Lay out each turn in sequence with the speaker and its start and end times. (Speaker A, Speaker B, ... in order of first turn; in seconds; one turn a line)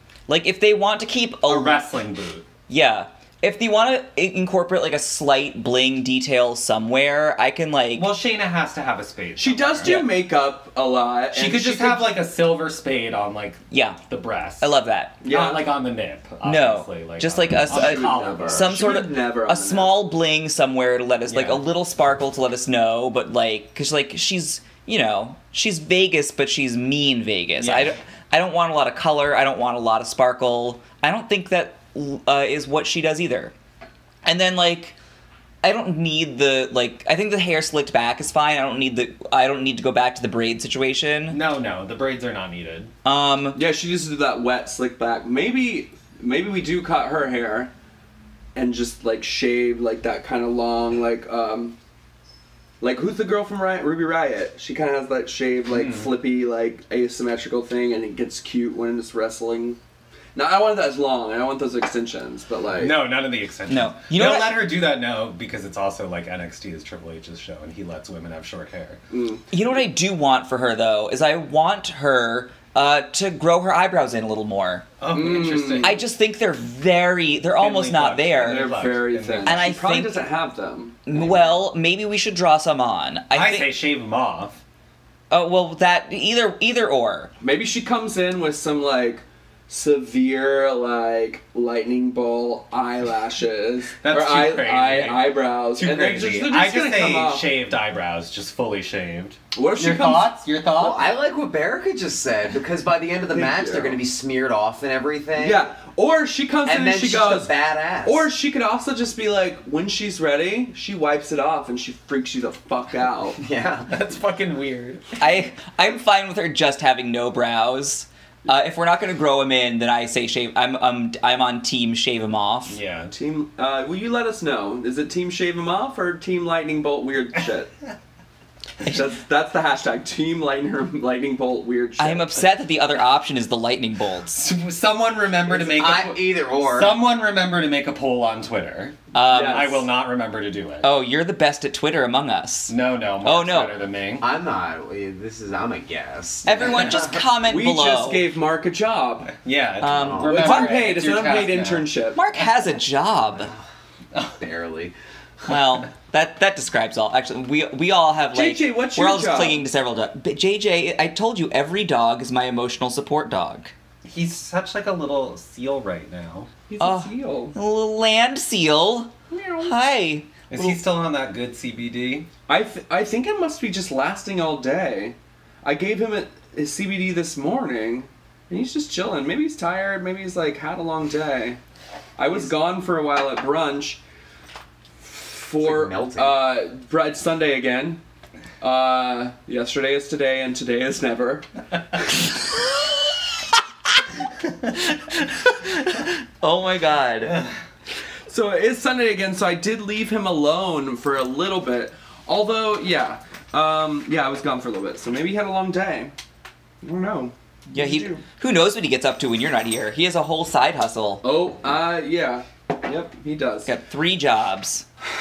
Speaker A: 0.3-1.9
Speaker B: 1.5-2.5
Speaker A: 2.7-8.1
Speaker B: 7.9-10.1
Speaker C: 9.4-12.1
Speaker A: 9.8-10.1
Speaker B: 11.3-14.7
Speaker A: 13.7-14.0
Speaker A: 14.6-15.1
Speaker C: 15.2-15.7
Speaker B: 15.2-18.7
Speaker A: 16.4-33.5
Speaker C: 17.7-20.0
Speaker B: 21.3-21.6
Speaker B: 27.6-28.0
Speaker A: 34.2-35.0
Speaker A: 35.6-41.4
Speaker B: 41.3-42.9
Speaker A: 43.0-43.6
Speaker C: 43.5-47.7
Speaker C: 48.5-51.8
Speaker C: 52.8-59.8
Speaker B: 55.7-56.1
Speaker C: 60.4-63.1
Speaker B: 62.7-69.0
Speaker A: 63.7-64.7
Speaker C: 69.1-69.5
Speaker A: 69.5-74.9
Speaker B: 75.0-76.0
Speaker C: 75.1-76.0
Speaker A: 75.8-78.7
Speaker B: 77.6-79.7
Speaker C: 78.4-81.0
Speaker A: 79.5-80.2
Speaker A: 81.1-83.8
Speaker B: 83.3-84.6
Speaker A: 85.3-87.3
Speaker C: 87.4-97.5
Speaker B: 94.0-101.1
Speaker C: 99.5-100.3
Speaker D: 100.8-105.7
Speaker C: 103.3-104.0
Speaker C: 105.4-113.4
Speaker D: 106.7-108.3
Speaker D: 113.4-113.9
Speaker B: 113.9-115.2
Speaker A: 115.2-122.8
Speaker B: 122.7-123.1
Speaker C: 123.1-127.7
Speaker C: 128.8-132.3
Speaker A: 132.0-134.4
Speaker B: 134.3-140.9
Speaker D: 135.5-137.0
Speaker A: 139.1-139.8
Speaker C: 139.3-139.9
Speaker A: 140.8-143.7
Speaker B: 142.7-144.2
Speaker D: 144.2-147.2
Speaker A: 146.4-148.3
Speaker C: 147.4-149.3
Speaker B: 149.4-151.9
Speaker A: 149.8-150.7
Speaker D: 150.1-150.5
Speaker C: 150.2-152.2
Speaker A: 152.2-153.5
Speaker D: 154.4-154.9
Speaker A: 155.5-163.7
Speaker C: 158.3-159.6
Speaker B: 164.1-166.5
Speaker C: 166.7-167.6
Speaker A: 166.8-169.1
Speaker C: 169.3-169.8
Speaker A: 169.6-170.3
Speaker B: 170.5-172.3
Speaker C: 172.5-181.6
Speaker C: 182.2-184.0
Speaker C: 185.0-188.0
Speaker D: 185.6-186.5
Speaker C: 188.6-191.5
Speaker A: 194.8-197.5
Speaker C: 198.3-206.1
Speaker C: 206.8-208.2
Speaker A: 207.7-211.2
Speaker C: 211.2-213.7
Speaker A: 213.7-214.9